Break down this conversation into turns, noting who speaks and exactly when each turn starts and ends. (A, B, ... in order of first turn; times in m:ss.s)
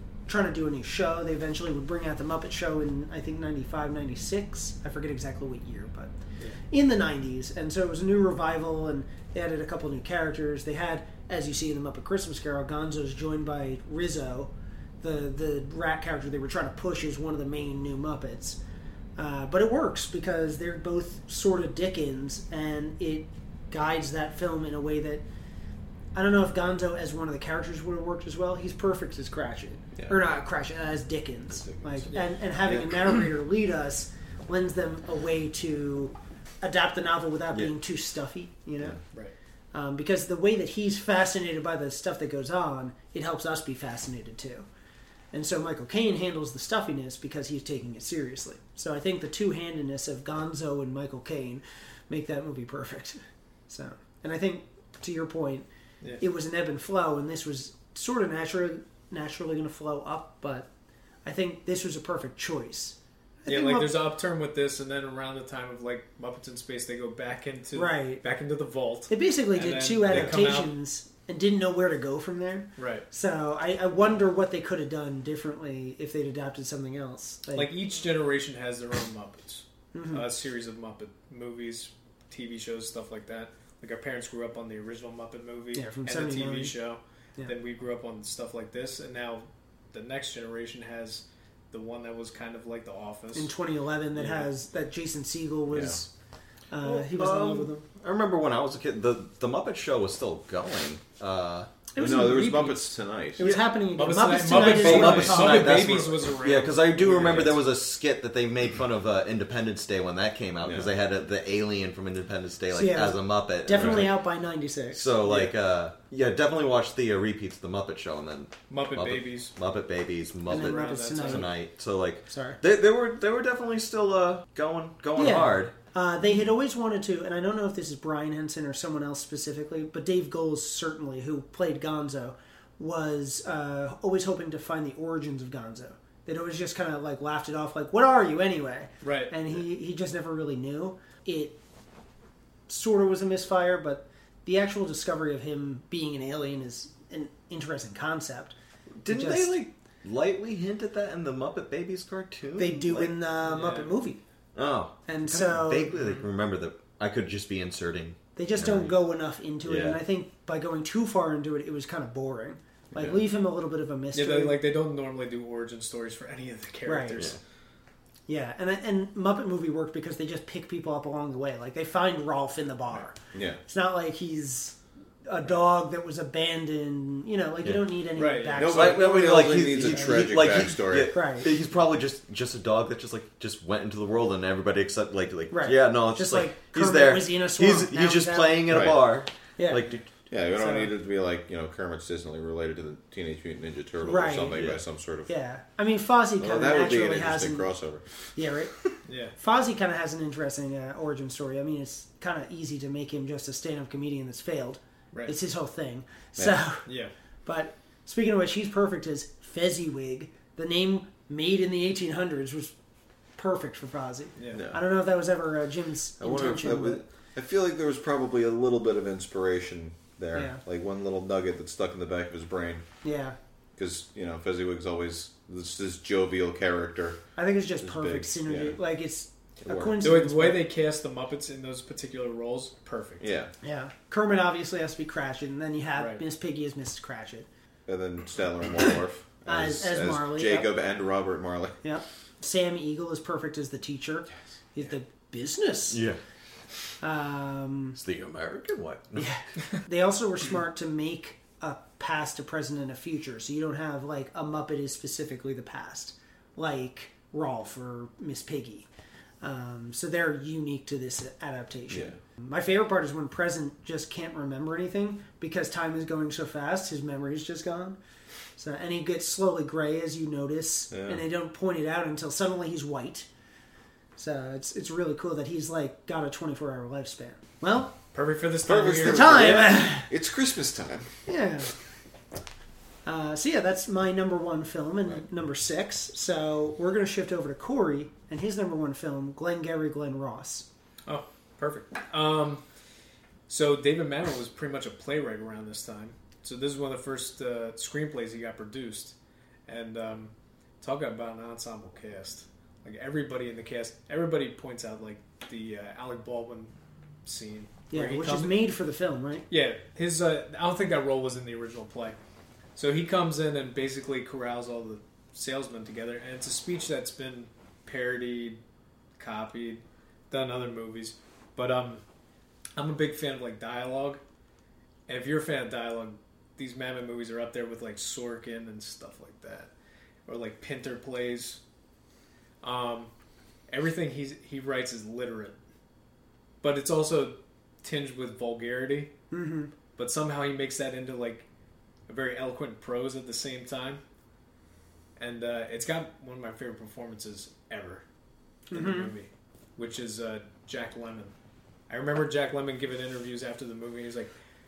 0:00.3-0:18.6 A
0:19.2-0:25.2 A
0:26.1-0:39.0 A
0:30.0-0:30.3 B
0:31.5-0:32.9 B
0:39.7-0:44.7 A
0:45.3-0:55.7 A
0:56.2-1:00.7 A
1:01.2-1:04.0 A
1:03.5-1:10.7 C
1:07.7-1:08.2 A
1:09.1-1:17.7 A
1:12.8-1:13.1 C
1:17.6-1:33.5 C
1:19.9-1:20.3 A
1:25.7-1:26.8 A
1:33.4-1:36.1 A
1:34.2-1:34.5 C
1:35.7-1:36.0 B
1:36.7-1:37.8 A
1:36.8-1:41.7 D
1:41.9-1:42.9 A
1:42.0-1:43.5 B
1:43.4-1:45.9 A
1:43.4-1:43.6 D
1:44.0-1:47.6 C
1:44.5-1:54.2 D
1:50.6-1:50.9 B
1:52.7-1:55.2 A
1:53.8-1:54.0 B
1:54.9-2:05.7 D
1:55.3-1:55.5 C
1:58.7-1:59.5 C
2:00.5-2:01.5 C
2:00.5-2:01.5 A
2:02.3-2:02.6 A
2:05.2-2:21.6 A
2:19.0-2:19.4 C
2:22.7-2:28.5 A
2:29.0-2:33.2 D
2:29.1-2:29.6 A
2:32.6-2:34.2 A
2:33.4-2:33.9 C
2:34.6-2:38.9 D
2:35.1-2:35.9 A
2:36.0-2:36.2 C
2:38.4-2:44.6 A
2:39.6-2:40.0 D
2:42.9-2:43.2 B
2:44.1-2:47.3 C
2:46.9-2:47.2 A
2:48.3-3:00.4 A
2:53.3-2:53.6 B
2:58.2-2:58.6 C
2:58.6-3:01.2 B
2:58.6-3:10.0 D
3:01.1-3:01.5 A
3:05.5-3:08.9 A
3:08.7-3:09.0 B
3:09.6-3:09.8 A
3:10.3-3:15.3 B
3:10.6-3:10.9 A
3:14.0-3:14.6 A
3:14.6-3:14.8 D
3:15.3-3:17.7 A
3:16.4-3:18.0 B
3:18.4-3:26.8 A
3:19.1-3:19.3 C
3:26.9-3:27.1 C
3:27.5-3:32.7 A
3:33.4-3:37.0 A
3:34.4-3:34.6 C
3:34.5-3:34.8 B
3:36.2-3:42.9 B
3:40.3-3:40.6 A
3:43.0-3:43.4 A
3:43.8-3:47.2 B
3:47.4-3:50.6 A
3:47.8-3:48.8 B
3:49.6-3:50.0 B
3:50.0-3:53.2 C
3:53.2-3:53.5 B
3:53.6-3:57.5 A
3:57.9-4:01.8 B
3:59.5-4:00.7 A
4:01.8-4:06.0 A
4:05.9-4:06.2 D
4:07.0-4:08.0 A
4:08.0-4:09.3 D
4:09.2-4:18.9 A
4:19.4-4:28.0 A
4:21.9-4:22.2 B
4:28.6-4:33.3 A
4:30.9-4:31.2 B
4:34.2-4:38.0 A
4:38.1-4:39.5 C
4:38.6-4:41.1 B
4:39.0-4:40.1 A
4:41.3-4:41.7 A
4:43.0-4:50.7 A
4:51.1-4:52.6 C
4:53.5-4:59.2 C
4:59.7-5:06.7 C
5:07.2-5:08.6 C
5:07.9-5:09.5 A
5:09.5-5:12.2 C
5:12.8-5:18.6 C
5:19.2-5:22.0 C
5:22.8-5:24.2 C
5:25.1-5:29.7 C
5:30.3-5:31.6 C
5:32.6-5:33.1 C
5:33.7-5:35.6 C
5:36.6-5:39.1 C
5:39.3-5:39.7 A
5:40.0-5:41.5 C
5:42.1-5:44.0 C
5:45.2-5:48.0 C
5:48.7-5:49.1 A
5:48.7-5:51.3 C
5:51.9-5:54.3 C